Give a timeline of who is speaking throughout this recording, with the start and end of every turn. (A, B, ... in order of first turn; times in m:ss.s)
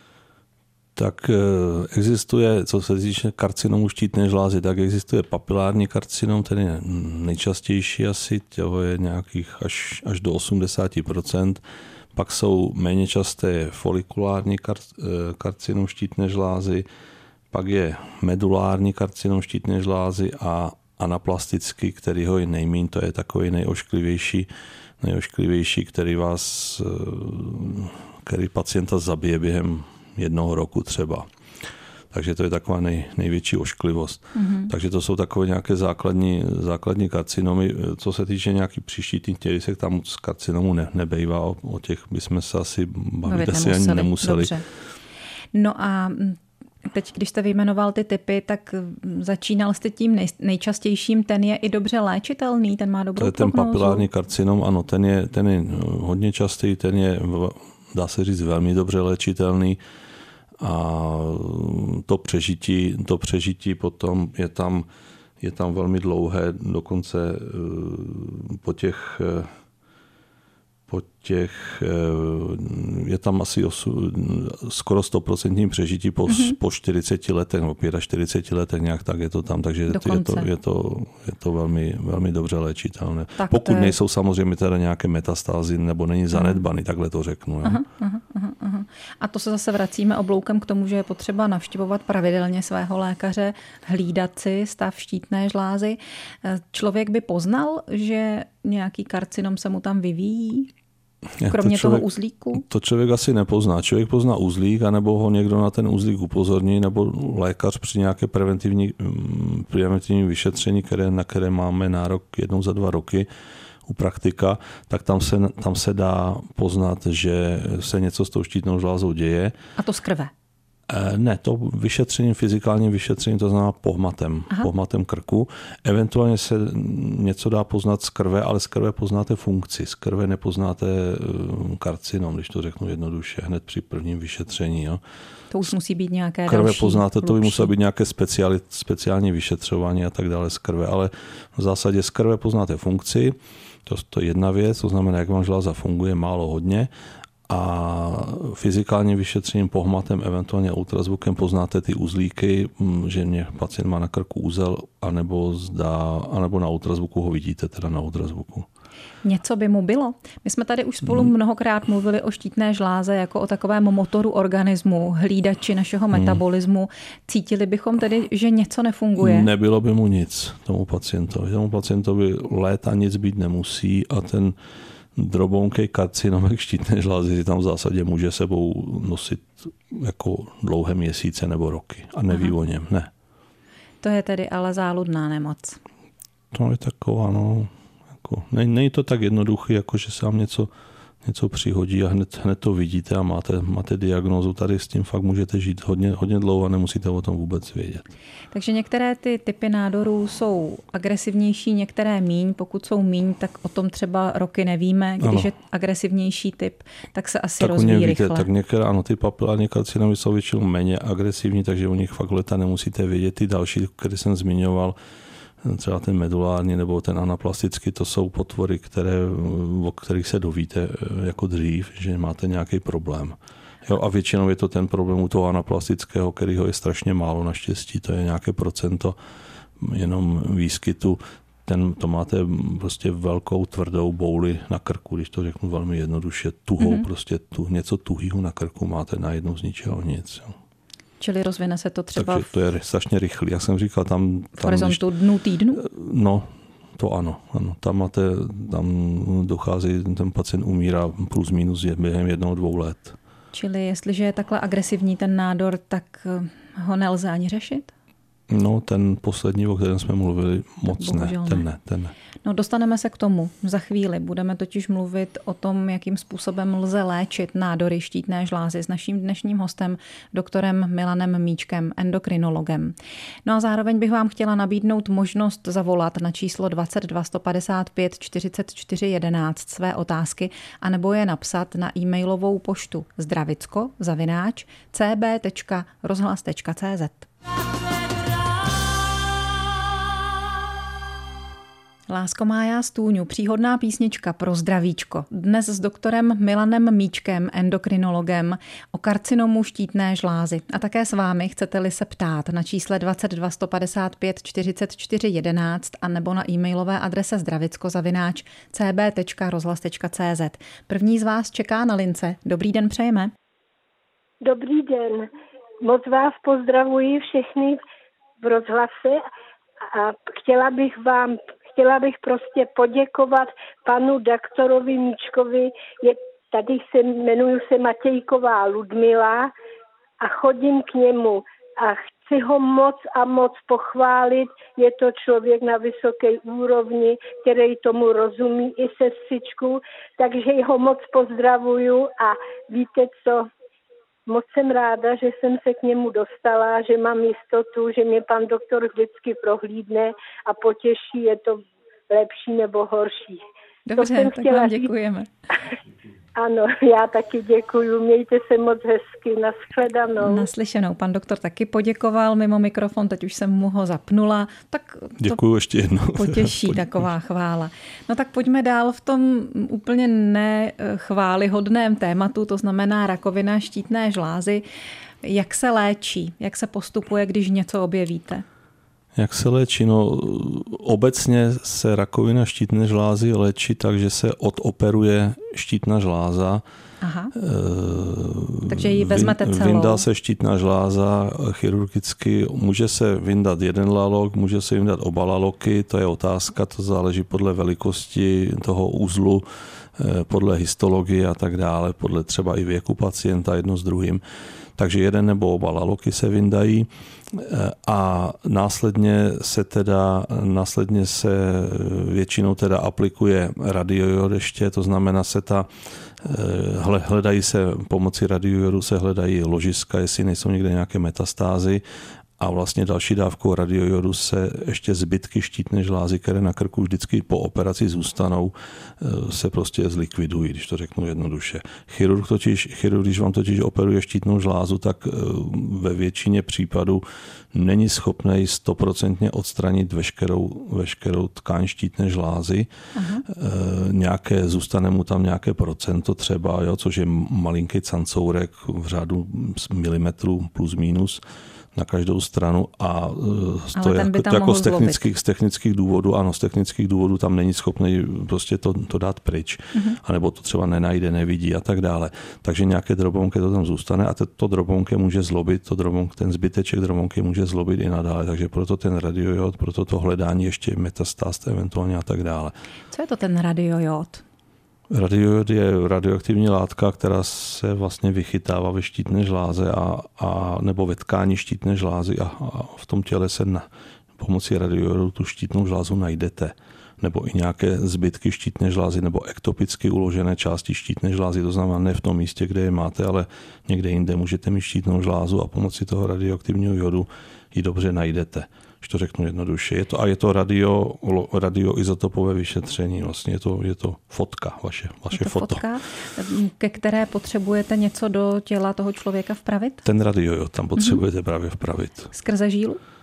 0:01.0-0:11.6 A
0:12.1-0:16.8 A
0:17.5-0:24.5 A
0:25.0-0:31.3 A
0:32.1-0:44.5 A
0:34.3-0:34.7 B
0:43.2-0:44.6 B
0:45.5-0:54.1 B
0:53.2-0:59.8 A
1:00.6-1:04.9 A
1:05.4-1:09.5 A
1:10.9-1:27.8 A
1:16.3-1:16.6 B
1:19.9-1:20.5 B
1:23.4-1:24.0 B
1:26.3-1:26.6 B
1:27.6-1:40.7 B
1:41.4-1:53.3 A
1:41.4-1:42.6 B
1:53.8-1:59.6 A
1:59.8-2:00.3 B
2:00.9-2:15.0 A
2:15.5-2:17.7 B
2:16.5-2:26.9 A
2:27.5-2:38.7 A
2:39.2-2:49.5 B
2:46.1-2:46.4 A
2:49.2-2:54.6 A
2:55.1-3:03.1 A
3:04.0-3:05.8 B
3:06.5-3:07.7 A
3:08.2-3:10.7 A
3:11.2-3:18.0 A
3:18.5-3:28.5 B
3:25.2-3:25.5 A
3:27.6-3:35.0 A
3:35.6-3:49.2 A
3:49.8-4:00.6 A
3:56.8-3:57.1 B
4:01.2-4:02.5 B
4:02.1-4:05.0 A
4:04.6-4:05.8 B
4:05.7-4:13.2 A
4:13.5-4:17.9 B
4:18.5-4:22.1 A
4:20.9-4:21.6 B
4:22.4-4:47.3 B
4:52.1-5:13.3 B
5:14.4-5:15.3 C
5:15.8-5:17.8 C
5:18.4-5:19.2 C
5:19.9-5:29.5 C
5:30.2-5:43.5 C
5:44.3-5:53.4 C
5:53.9-5:55.3 B
5:54.0-5:54.9 C
5:56.4-6:00.5 C
6:00.2-6:05.4 B
6:05.2-6:07.0 A
6:06.1-6:14.6 B
6:15.2-6:18.4 B
6:19.2-6:26.6 A
6:27.0-6:27.3 B
6:27.3-6:44.2 A
6:28.7-6:30.0 B
6:44.8-7:01.8 A
7:02.4-7:22.7 A
7:22.9-7:23.2 B
7:23.2-7:31.2 A
7:31.7-7:52.5 A
7:33.7-7:35.0 B
7:52.9-7:54.2 B
7:54.9-8:25.6 A
8:25.1-8:29.8 B
8:29.8-8:32.1 A
8:32.1-8:32.8 B